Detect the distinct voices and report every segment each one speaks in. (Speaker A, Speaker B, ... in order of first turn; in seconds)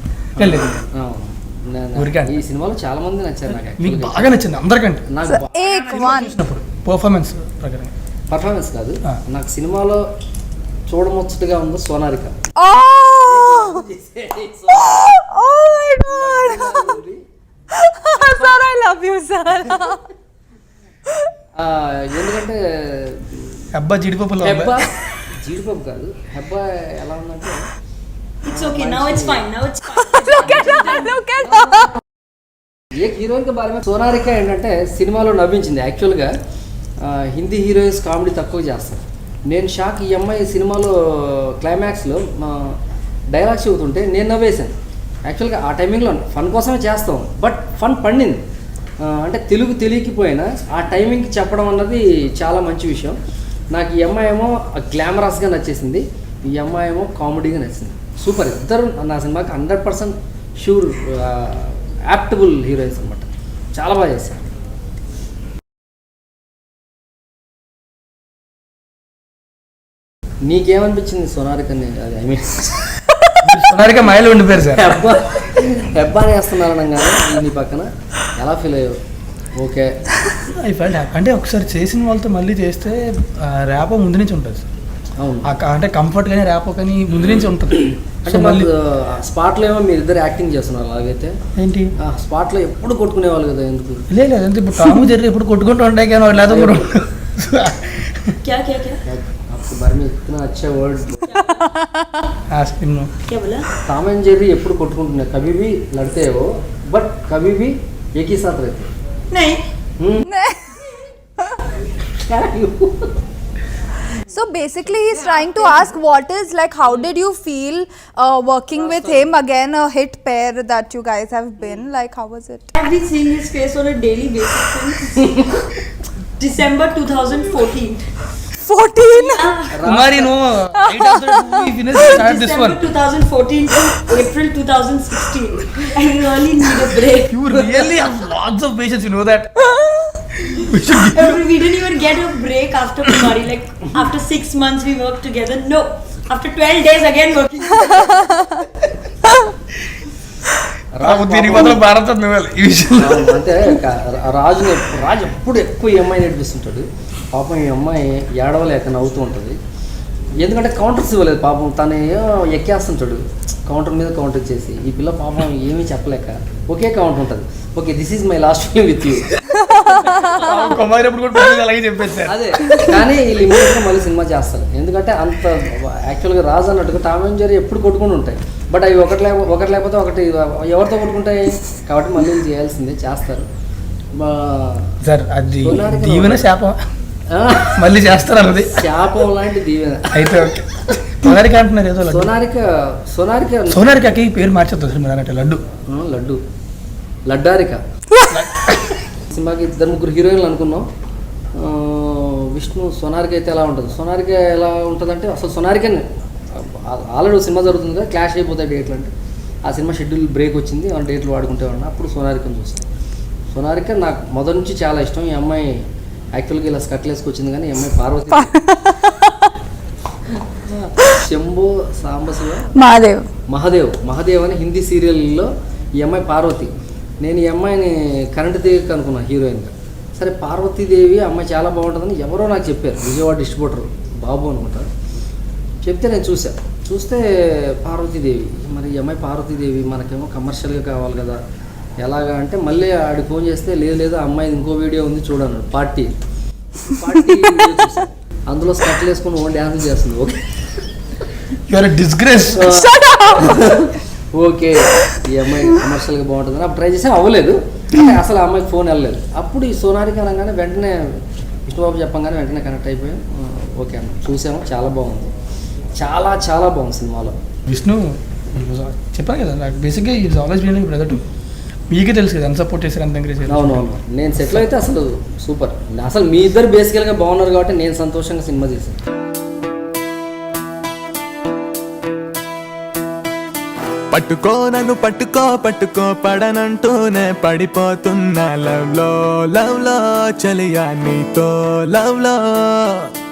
Speaker A: 0.3-4.4, 5.1-5.5, 8.3-10.1, 10.9-12.3, 13.2-15.1, 16.0-17.2, 21.5-23.7, 24.4-27.7, 28.4-29.4, 31.4-31.8, 32.9-36.3, 37.0-42.8, 43.3-48.4, 49.0-53.2, 53.7-64.5, 70.4-72.8, 74.7-79.0, 79.6-80.0, 85.2-85.5, 87.2-91.3, 92.0-94.1, 96.5-96.9, 99.0-101.3, 103.8-108.9, 110.0-110.3, 112.1-113.1, 118.7-119.3, 129.7-130.3, 150.9-151.8, 152.9-159.6, 160.4-169.4, 172.2-183.5, 184.1-185.0, 185.6-186.5, 187.3-190.5, 192.1-193.9, 195.9-196.4, 197.3-197.8, 199.3-200.9, 201.5-209.1, 209.6-212.9, 213.5-215.8, 216.3-218.5, 220.7-222.7, 223.5-234.9, 235.8-241.4, 242.0-246.2, 246.8-250.8, 252.5-265.3, 265.9-267.4, 273.5-279.0
Speaker B: 0.4-0.8, 1.9-2.4, 3.5-7.9, 23.7-24.9, 73.4-74.9, 80.4-84.7, 85.4-88.7, 91.5-91.9, 94.1-98.3, 102.5-103.1, 129.8-132.8, 137.3-139.5, 140.4-141.4, 151.0-153.6, 170.2-172.8, 185.0-186.8, 187.8-188.9, 190.1-192.3, 193.7-195.6, 198.3-199.0, 251.7-252.7, 267.7-271.2, 271.9-274.7
Speaker C: 5.3-6.4, 12.6-13.8, 14.8-17.0, 17.7-20.0, 30.0-31.9, 101.5-102.3, 110.2-111.6, 114.3-122.7, 128.6-129.6, 130.8-131.6, 148.0-148.4, 169.5-170.4, 172.7-173.0, 198.2-198.4, 218.3-219.5, 222.8-223.2, 252.6-253.8
Speaker D: 28.4-31.2, 98.4-99.0, 101.3-101.7, 103.3-103.7, 109.3-109.6, 115.0-116.0, 122.8-125.5, 126.4-128.1, 129.1-129.7, 131.9-137.5, 141.0-148.3
Speaker E: 284.1-293.1